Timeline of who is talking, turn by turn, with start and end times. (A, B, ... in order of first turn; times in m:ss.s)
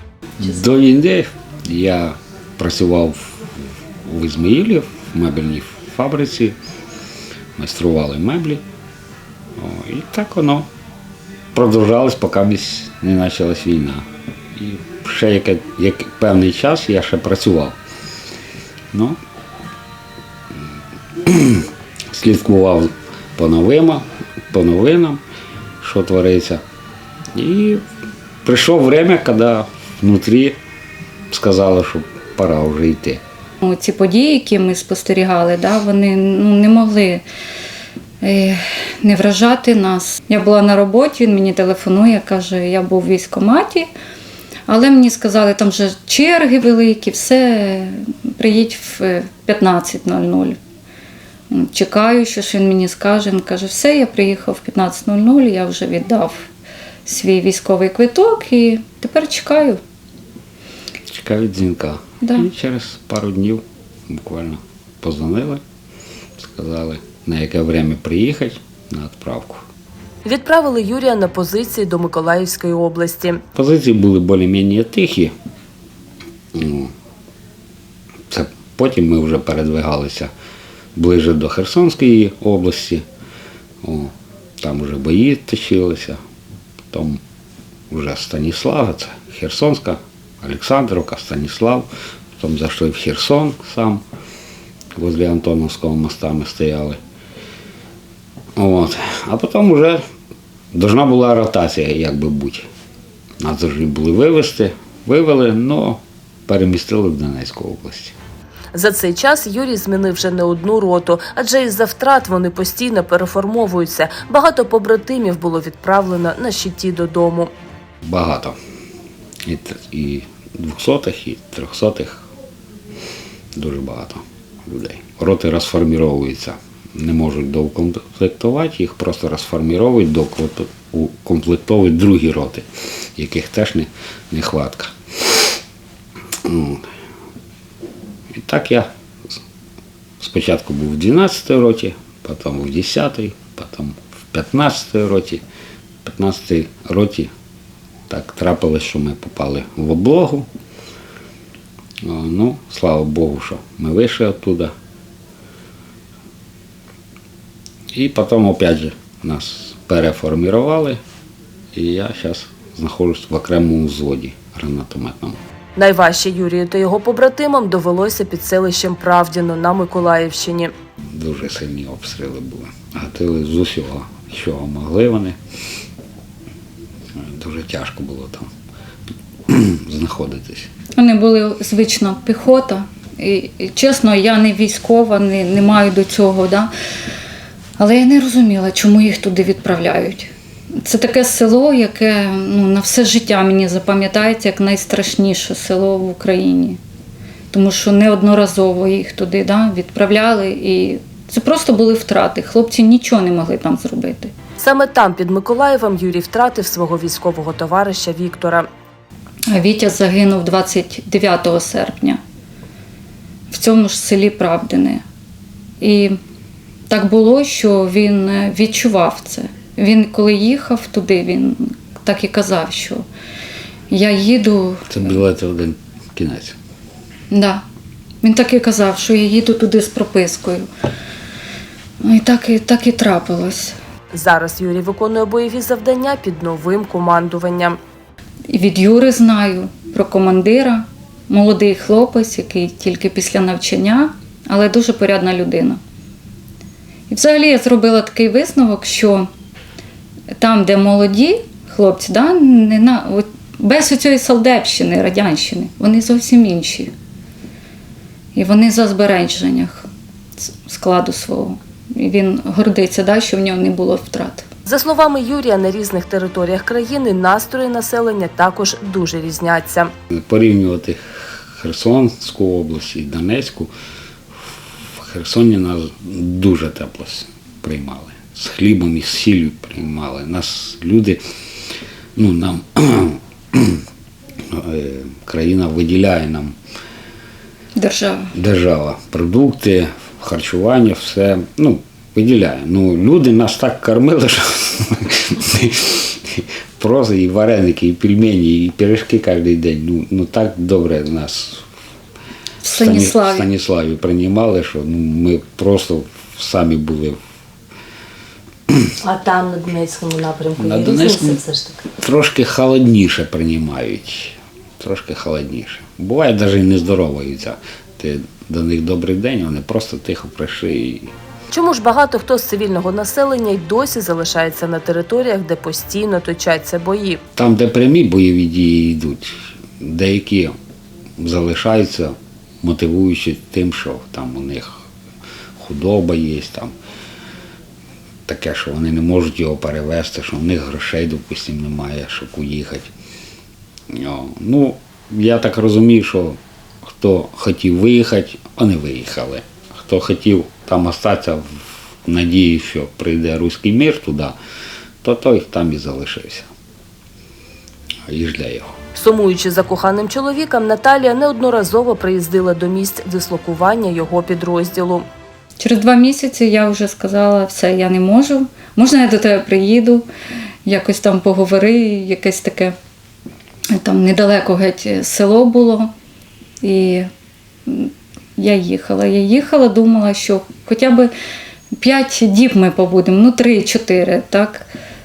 0:00.4-0:03.4 A
0:04.1-0:06.5 A
0:07.6-0:08.6 A
0:09.6-0:10.7 A
0:11.5-0:14.0 A
0:14.5-0:17.8 A
0:18.9-0:19.2 A
0:21.2-0:25.2 A
0:25.8-0:26.6 A
0:27.3-0:27.8 A
0:28.4-0:30.6 A
0:31.3-0:33.2 A
0:33.6-0:37.2 B
0:38.2-0:43.9 B
0:44.7-0:50.6 B
0:51.5-0:56.5 B
0:57.0-0:59.8 B
1:01.1-1:05.6 A
1:06.4-1:09.6 A
1:10.2-1:13.4 C
1:13.5-1:15.3 A
1:16.5-1:16.9 A
1:18.3-1:20.3 A
1:21.0-1:23.0 A
1:23.8-1:26.2 A
1:26.9-1:27.2 A
1:27.9-1:34.0 A
1:35.0-1:37.0 A
1:38.6-1:40.0 A
1:40.7-1:42.7 A
1:43.4-1:48.1 A
1:48.7-1:57.5 C
1:58.0-1:58.5 A
1:59.4-2:02.2 A
2:03.5-2:12.6 A
2:13.2-2:14.9 A
2:16.4-2:16.8 A
2:18.3-2:18.9 A
2:20.2-2:25.4 A
2:26.0-2:27.3 A
2:28.1-2:30.5 A
2:32.0-2:34.7 A
2:37.9-2:41.0 A
2:41.7-2:45.4 A
2:45.8-2:50.7 C
2:51.1-2:55.4 A
2:57.2-2:58.5 A
2:59.5-3:00.7 A
3:01.0-3:06.7 B
3:07.8-3:16.8 B
3:17.5-3:24.3 B
3:24.6-3:28.7 C
3:29.5-3:32.2 B
3:33.5-3:35.0 B
3:35.8-3:36.1 B
3:36.9-3:43.0 B
3:43.9-3:45.2 B
3:44.9-3:46.6 A
3:47.3-3:47.6 B
3:48.2-3:50.7 B
3:52.0-3:53.8 B
3:54.1-3:57.8 C
3:58.5-4:05.8 B
4:07.1-4:09.3 B
4:10.3-4:16.9 B
4:18.3-4:19.9 B
4:20.4-4:24.5 B
4:24.6-4:29.9 C
4:30.1-4:33.7 A
4:35.0-4:41.2 A
4:42.2-4:43.8 A
4:44.5-4:46.5 A
4:47.8-4:48.3 B
4:48.3-5:01.6 A
5:02.6-5:03.5 B
5:02.7-5:07.2 A
5:09.0-5:11.8 C
5:10.6-5:11.4 A
5:12.0-5:21.1 A
5:21.5-5:27.2 C
5:27.4-5:30.5 A
5:31.2-5:34.8 A
5:35.6-5:36.7 A
5:38.3-5:42.9 A
5:43.9-5:54.4 A
5:55.0-5:56.5 A
5:58.1-5:58.8 A
5:58.9-6:05.0 C
6:05.6-6:10.0 B
6:10.6-6:12.7 B
6:13.7-6:15.9 B
6:16.6-6:17.1 B
6:17.6-6:21.1 B
6:21.7-6:24.7 B